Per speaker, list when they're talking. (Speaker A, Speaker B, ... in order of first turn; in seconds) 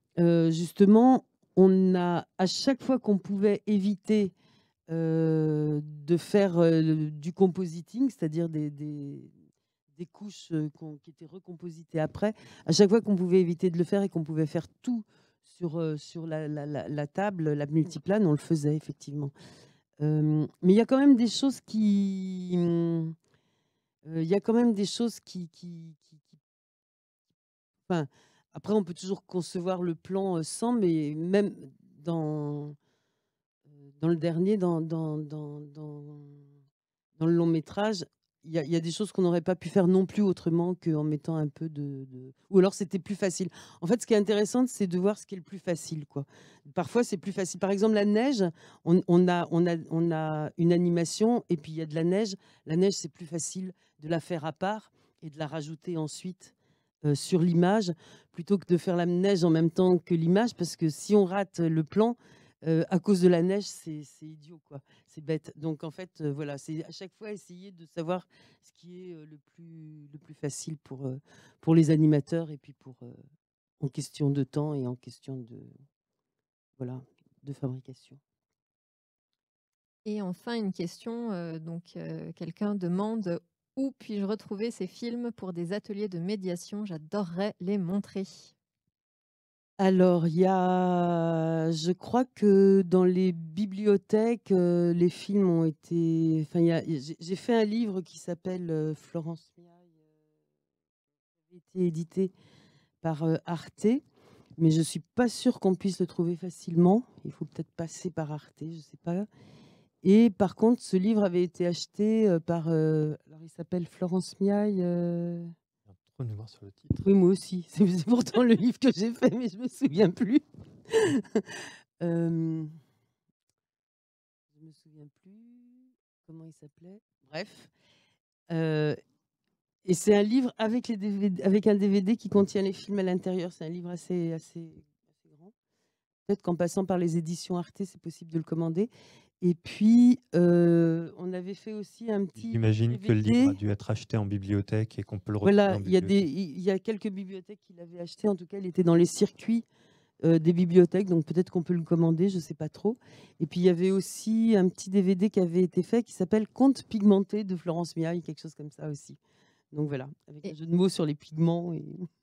Speaker A: 0.2-4.3, 4.9-9.3, 9.9-19.3, 20.0-23.2, 24.1-26.4, 27.9-32.8, 33.7-36.5, 37.2-56.5, 57.0-73.2, 73.8-75.7, 76.8-78.2, 89.8-100.1, 101.5-102.3, 103.0-104.0, 104.6-109.3, 110.0-115.5, 117.0-122.8, 124.5-127.7, 128.5-129.0, 129.8-135.5, 136.3-143.6, 145.4-149.7, 150.2-159.2, 159.7-162.1
Speaker B: 80.0-88.5
Speaker C: 115.9-117.0, 142.4-146.2